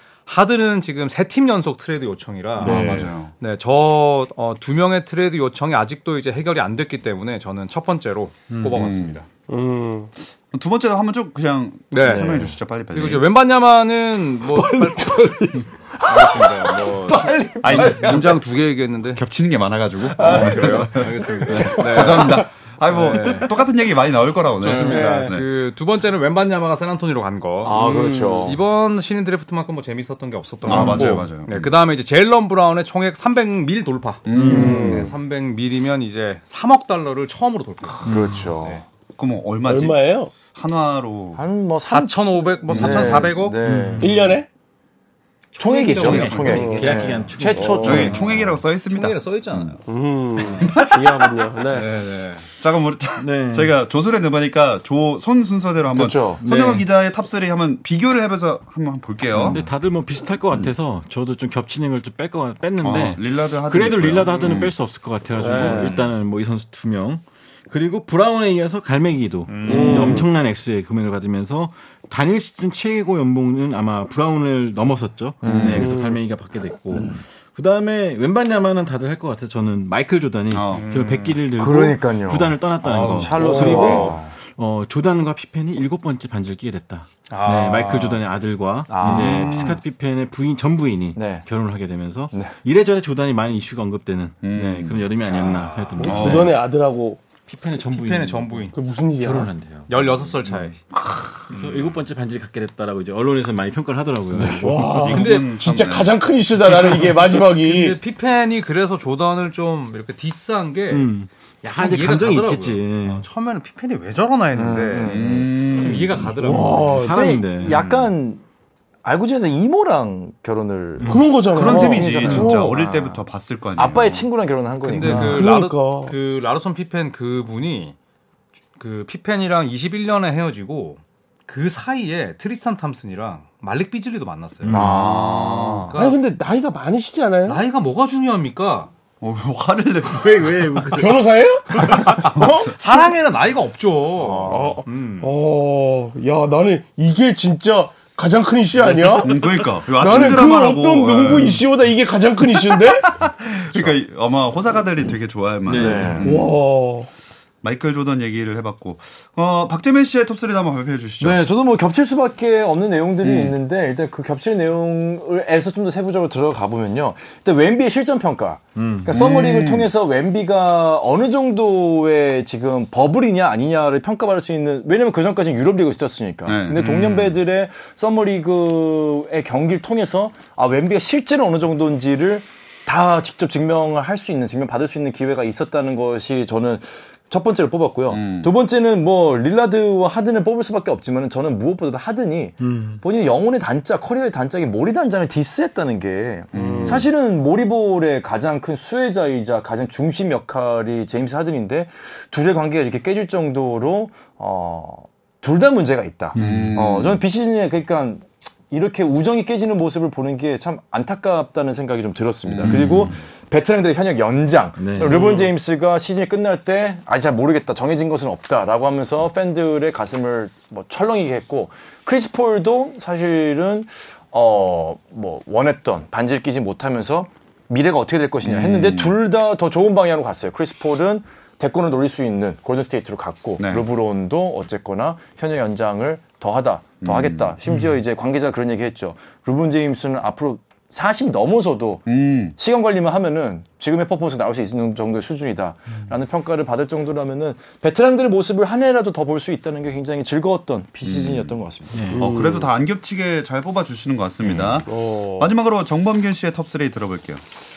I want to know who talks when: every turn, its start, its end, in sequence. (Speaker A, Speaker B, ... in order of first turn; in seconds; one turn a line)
Speaker A: 0.2-9.2
Speaker B: 2.6-3.1
Speaker C: 2.6-3.3
Speaker C: 8.7-9.2
Speaker D: 9.5-10.1
Speaker C: 10.5-13.3
Speaker A: 11.9-15.4
Speaker B: 12.0-12.5
Speaker B: 14.5-18.3
Speaker A: 16.0-19.2
Speaker C: 17.6-18.4
Speaker C: 19.1-25.4
Speaker A: 20.2-23.6
Speaker B: 20.2-22.3
Speaker A: 24.6-38.1
Speaker D: 24.9-25.4
Speaker B: 27.6-28.6
Speaker D: 27.7-28.6
Speaker C: 30.6-31.7
Speaker B: 30.7-31.0
Speaker C: 34.2-35.0
Speaker E: 34.4-34.8
Speaker B: 34.4-35.1
Speaker D: 34.4-35.1
Speaker E: 38.0-38.5
Speaker B: 38.0-38.8
Speaker C: 39.1-40.0
Speaker D: 39.6-40.3
Speaker C: 40.5-41.4
Speaker B: 41.4-44.1
Speaker A: 41.8-43.6
Speaker C: 42.7-43.3
Speaker E: 43.6-44.4
Speaker D: 44.0-44.5
Speaker A: 45.5-48.3
Speaker B: 45.6-48.5
Speaker E: 46.0-48.2
Speaker C: 46.0-46.4
Speaker D: 46.5-47.0
Speaker C: 47.8-49.7
Speaker A: 48.9-49.8
Speaker D: 49.9-51.9
Speaker A: 50.4-50.7
Speaker C: 50.5-51.3
Speaker A: 51.7-52.5
Speaker C: 52.6-59.6
Speaker E: 53.2-53.7
Speaker B: 55.9-56.4
Speaker E: 56.4-56.9
Speaker E: 59.3-96.5
Speaker C: 62.8-64.7
Speaker A: 64.2-64.7
Speaker D: 65.4-66.0
Speaker A: 65.7-66.0
Speaker A: 69.5-70.2
Speaker D: 69.7-70.3
Speaker B: 75.4-75.9
Speaker C: 75.4-75.9
Speaker D: 75.8-76.2
Speaker B: 76.9-77.2
Speaker C: 80.5-80.9
Speaker A: 80.7-81.4
Speaker B: 81.5-84.3
Speaker C: 82.9-83.3
Speaker D: 83.4-84.1
Speaker A: 83.5-84.1
Speaker A: 87.3-88.2
Speaker B: 88.9-89.8
Speaker C: 89.0-89.8
Speaker B: 91.2-91.5
Speaker C: 94.4-95.1
Speaker A: 95.4-96.0
Speaker D: 96.0-97.2
Speaker C: 96.0-96.5
Speaker E: 97.5-100.7
Speaker A: 97.8-98.7
Speaker D: 98.7-99.5
Speaker A: 99.9-100.8
Speaker C: 100.9-101.5
Speaker E: 101.5-105.2
Speaker A: 101.5-102.0
Speaker B: 104.3-104.7
Speaker D: 104.6-108.0
Speaker C: 105.0-106.2
Speaker A: 105.0-105.7
Speaker A: 107.2-117.0
Speaker E: 110.9-113.2
Speaker B: 114.5-118.4
Speaker C: 115.0-116.3
Speaker D: 116.4-117.4
Speaker E: 116.5-117.8
Speaker A: 117.6-118.1
Speaker B: 119.0-123.2
Speaker E: 121.0-121.3
Speaker D: 121.0-122.7
Speaker C: 121.5-124.3
Speaker B: 123.8-125.5
Speaker A: 124.8-128.0
Speaker D: 125.0-126.1
Speaker A: 128.8-136.2
Speaker E: 134.6-135.0
Speaker B: 134.7-135.7
Speaker C: 134.7-136.0
Speaker D: 135.9-137.6
Speaker A: 137.5-138.9
Speaker C: 139.2-140.9
Speaker E: 140.1-141.2
Speaker D: 140.9-142.8
Speaker C: 142.0-142.7
Speaker A: 142.1-145.3
Speaker B: 144.2-144.8
Speaker D: 144.5-153.1
Speaker C: 149.2-151.6
Speaker B: 150.0-150.5
Speaker C: 152.7-156.5
Speaker E: 155.7-156.2
Speaker B: 155.7-156.3
Speaker D: 156.2-157.1
Speaker C: 157.6-161.4
Speaker B: 161.2-252.1
Speaker C: 163.2-163.6
Speaker E: 168.8-169.1
Speaker C: 169.1-169.9
Speaker C: 176.4-176.9
Speaker E: 176.8-177.3
Speaker C: 188.1-188.5
Speaker E: 192.6-193.0
Speaker C: 196.5-197.1
Speaker D: 196.5-197.1
Speaker E: 206.3-206.8
Speaker C: 206.3-207.2
Speaker C: 212.4-213.2
Speaker E: 212.6-213.1
Speaker E: 214.8-215.4
Speaker A: 215.0-215.5
Speaker C: 228.4-229.2
Speaker C: 233.6-233.9
Speaker C: 237.0-237.6
Speaker E: 237.7-238.0
Speaker C: 242.1-242.6
Speaker C: 251.0-251.6
Speaker E: 251.9-252.3
Speaker D: 252.1-252.7
Speaker C: 252.1-257.4
Speaker D: 254.8-255.5